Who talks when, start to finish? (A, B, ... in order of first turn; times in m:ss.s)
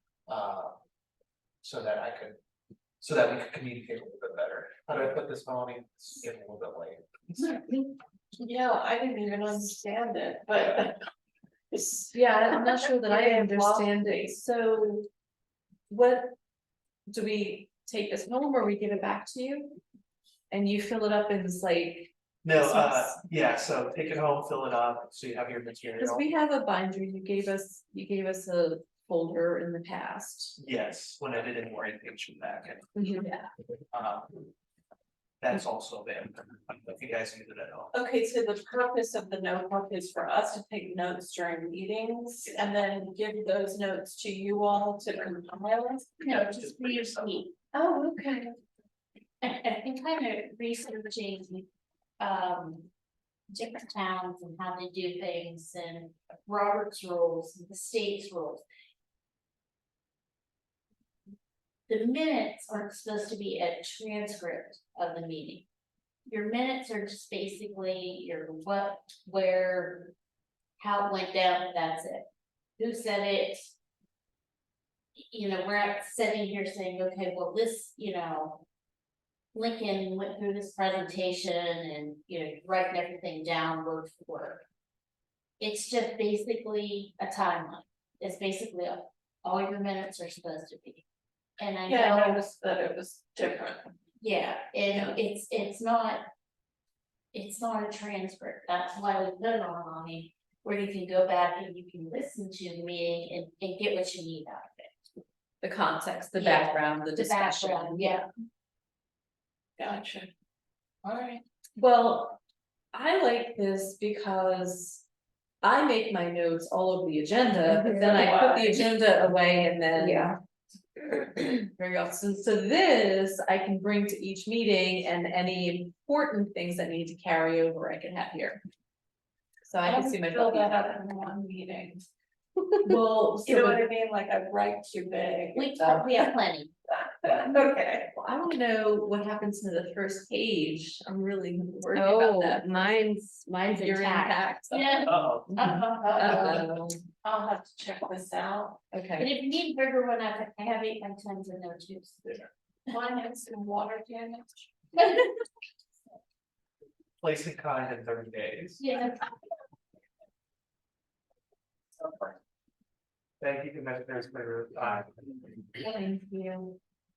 0:00.3-0:00.8 A
0:01.6-0:02.4 A
0:03.0-0:07.6 A
0:08.4-0:11.0 B
0:11.7-0:14.3 B
0:12.1-0:15.1 C
0:15.9-0:16.3 C
0:17.1-0:19.8 C
0:20.5-0:23.2 C
0:22.4-0:26.2 A
0:26.0-0:30.6 C
0:30.6-0:32.9 A
0:33.0-0:33.2 D
0:33.2-0:33.5 C
0:33.9-0:34.4 A
0:35.4-0:37.9 A
0:37.9-0:46.3 B
0:46.2-0:47.5 E
0:46.3-0:47.4 A
0:47.7-0:48.6 C
0:49.4-0:51.7 E
0:52.2-0:52.9 E
0:53.5-0:58.6 E
1:01.9-1:05.6 E
1:06.3-1:10.1 E
1:10.8-1:13.7 E
1:15.2-1:18.6 E
1:19.5-1:24.6 E
1:25.6-1:31.0 E
1:31.6-1:32.4 E
1:31.8-1:33.9 B
1:34.2-1:36.2 E
1:34.9-1:35.2 B
1:37.3-1:45.1 E
1:45.6-1:48.2 C
1:46.4-1:48.3 E
1:49.8-1:50.3 B
1:51.0-1:51.4 B
1:51.8-1:52.4 C
1:52.9-1:55.0 C
1:55.6-2:00.4 C
1:57.6-1:58.4 D
1:58.0-1:58.9 B
1:59.9-2:00.4 D
2:01.1-2:08.6 C
2:09.7-2:10.8 C
2:09.8-2:12.0 B
2:12.8-2:13.8 C
2:12.8-2:16.4 B
2:15.5-2:16.7 E
2:16.9-2:18.1 B
2:18.1-2:23.0 C
2:21.9-2:24.6 D
2:23.7-2:27.0 C
2:24.7-2:26.5 E
2:25.1-2:25.6 A
2:25.5-2:26.6 D
2:27.2-2:28.8 B
2:28.9-2:29.3 C
2:29.2-2:32.5 E
2:32.9-2:34.7 B
2:37.2-2:38.8 A
2:38.8-2:39.2 E
2:43.4-2:45.2 A
2:45.8-2:46.8 C